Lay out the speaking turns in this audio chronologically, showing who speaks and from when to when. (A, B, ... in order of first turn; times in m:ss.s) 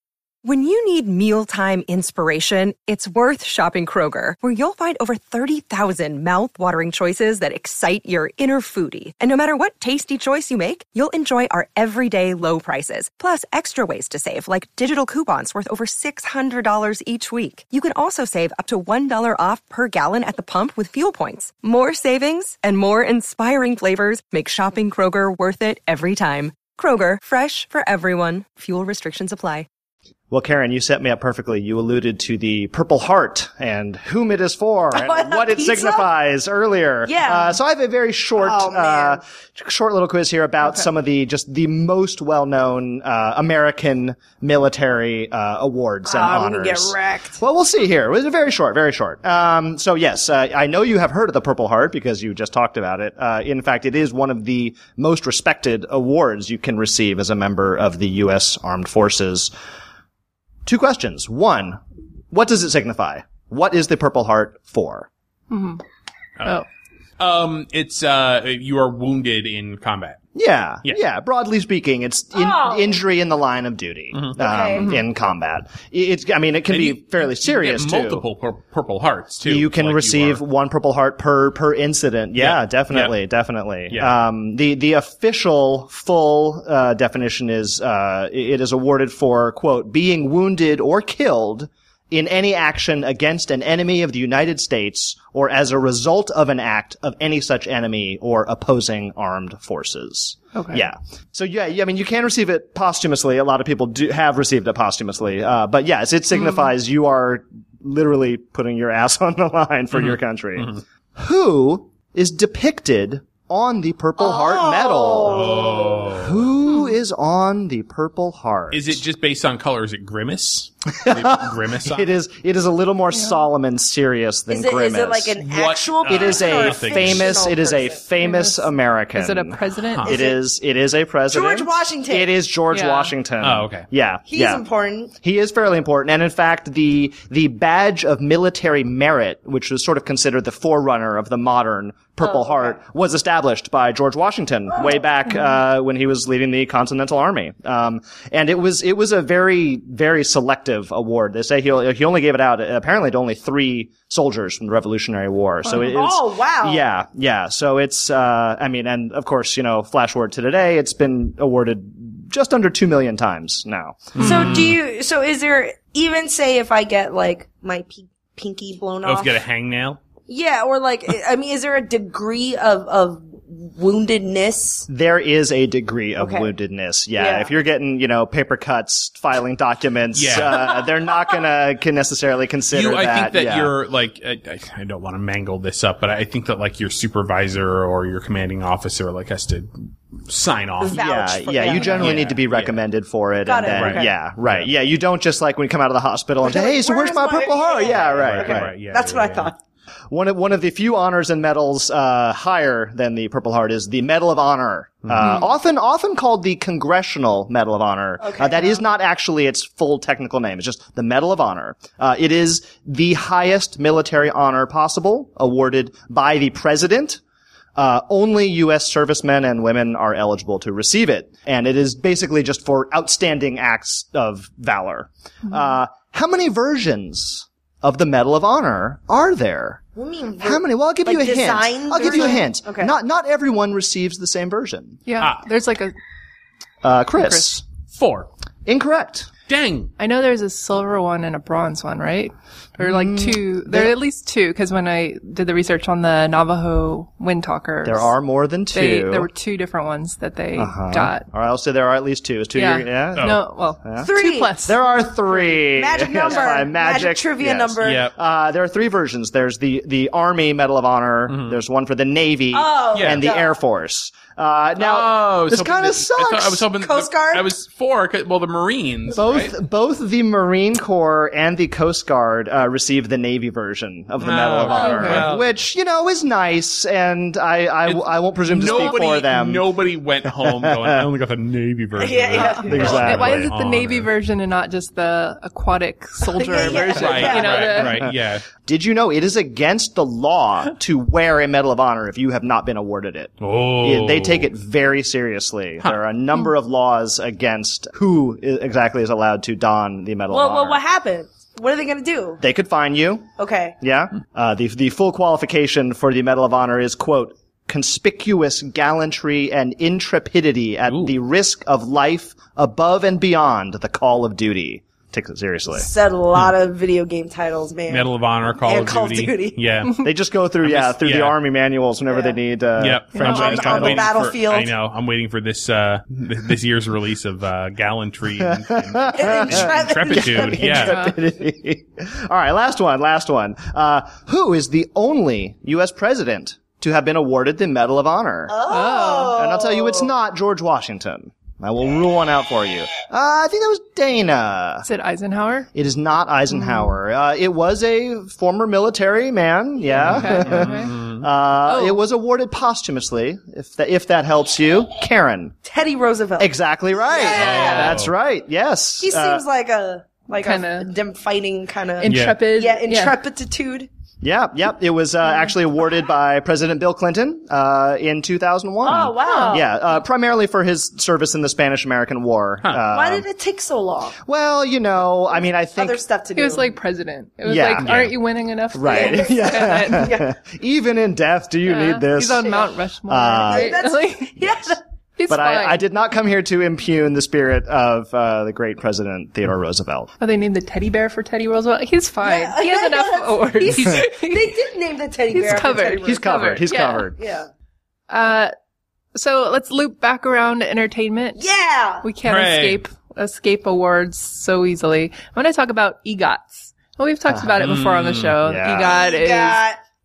0:00.4-0:29.7 A
0:30.3-0:59.5 B
0:34.9-0:36.1 C
0:37.0-0:37.6 C
0:38.4-0:39.2 C
0:46.0-0:47.4 C
1:00.7-1:01.8 B
1:02.3-1:05.1 B
1:05.5-1:05.8 D
1:06.4-1:06.6 E
1:07.2-1:10.2 E
1:10.4-1:18.2 B
1:12.3-1:13.0 C
1:14.4-1:14.9 C
1:14.8-1:15.0 D
1:16.7-1:20.4 E
1:19.4-1:59.0 B
1:22.4-1:23.2 E
1:23.9-1:24.2 E
1:40.6-1:40.9 D
1:46.3-1:46.7 D
1:49.9-1:50.8 E
1:54.2-1:56.0 C
1:55.3-1:56.5 E
1:58.7-2:02.1 E
2:01.0-2:05.4 B
2:03.1-2:03.4 D
2:04.5-2:08.0 C
2:05.4-2:07.4 E
2:06.0-2:14.6 B
2:08.2-2:10.3 D
2:10.1-2:10.4 C
2:11.3-2:12.4 C
2:12.7-2:13.1 D
2:13.4-2:13.9 E
2:14.3-2:15.1 C
2:15.2-2:44.6 B
2:22.2-2:22.8 C
2:35.6-2:36.8 C
2:44.2-2:44.8 E
2:44.2-2:49.4 C
2:49.0-2:50.0 E
2:50.3-2:54.9 C
2:54.9-3:03.7 B
2:56.2-2:56.5 C
2:57.2-2:57.5 C
3:00.2-3:00.7 E
3:02.7-3:09.7 E
3:10.2-3:11.0 E
3:10.8-3:12.2 C
3:10.9-3:18.7 B
3:11.6-3:12.8 E
3:13.4-3:14.2 C
3:13.7-3:14.7 E
3:16.4-3:19.6 C
3:18.1-3:19.5 E
3:20.1-3:37.2 B
3:28.2-3:28.9 C
3:37.8-3:49.8 B
3:50.0-3:53.0 C
3:50.4-3:55.0 B
3:52.1-3:52.4 D
3:55.1-3:55.9 D
3:55.2-3:55.4 E
3:56.8-3:57.6 B
3:57.2-3:57.5 D
3:57.9-3:58.3 E
3:58.7-3:59.3 B
3:59.5-3:59.9 E
4:00.0-4:08.1 D
4:02.8-4:04.0 B
4:07.8-4:09.3 B
4:08.7-4:11.2 D
4:10.5-4:26.7 B
4:12.6-4:15.6 D
4:13.2-4:13.4 E
4:14.0-4:14.5 C
4:15.7-4:18.1 C
4:16.2-4:16.7 D
4:17.8-4:18.1 E
4:21.3-4:21.6 E
4:22.5-4:23.6 C
4:22.9-4:23.3 E
4:24.8-4:29.6 E
4:26.7-4:27.5 C
4:29.1-4:39.7 B
4:34.2-4:35.6 E
4:34.8-4:35.2 C
4:37.8-4:44.1 E
4:38.5-4:39.0 D
4:40.3-4:41.0 B
4:42.0-4:43.0 C
4:42.4-4:48.1 D
4:42.7-4:43.5 B
4:46.2-4:47.9 C
4:46.6-4:48.5 E
4:48.6-5:00.8 B
4:53.4-4:54.5 E
5:00.3-5:02.4 C
5:02.4-5:03.3 B
5:03.4-5:03.8 C
5:03.8-5:15.9 B
5:10.9-5:11.1 E
5:15.7-5:19.6 C
5:17.9-5:20.1 E
5:20.0-5:24.2 B
5:20.6-5:21.4 E
5:22.1-5:22.4 C
5:22.8-5:31.0 E
5:23.2-5:24.7 C
5:28.4-5:38.5 B
5:29.1-5:30.9 C
5:30.8-5:31.2 D
5:38.5-5:40.1 C
5:38.7-5:39.4 D
5:39.3-5:44.9 B
5:44.8-5:45.7 D
5:45.8-5:55.6 B
5:46.5-5:47.0 D
5:49.9-5:51.0 D
5:50.0-5:51.3 E
5:51.7-5:52.0 D
5:55.6-5:58.0 C
5:56.4-5:59.4 B
5:57.3-5:58.1 E
5:59.0-6:03.9 C
6:00.4-6:00.9 D
6:02.0-6:03.2 D
6:02.0-6:02.4 E
6:04.2-6:13.3 B
6:08.8-6:09.7 C
6:09.3-6:09.6 D
6:12.9-6:14.2 C
6:14.2-6:16.0 B
6:15.7-6:16.7 C
6:16.4-6:20.3 D
6:17.4-6:18.1 B
6:17.8-6:18.2 E
6:18.7-6:23.8 B
6:18.9-6:20.2 C
6:21.7-6:24.4 D
6:23.5-6:24.8 C
6:25.2-6:25.8 D
6:25.3-6:30.1 B
6:30.2-6:34.6 D
6:32.2-6:37.5 C
6:33.7-6:34.0 B
6:35.3-6:37.1 D
6:36.0-6:37.2 B
6:38.1-6:38.5 D
6:39.2-6:41.4 D
6:41.4-6:42.1 C
6:42.0-6:49.6 D
6:42.2-6:42.8 E
6:47.3-6:47.6 B
6:47.6-6:48.4 E
6:48.4-6:49.0 B
6:48.7-6:49.8 C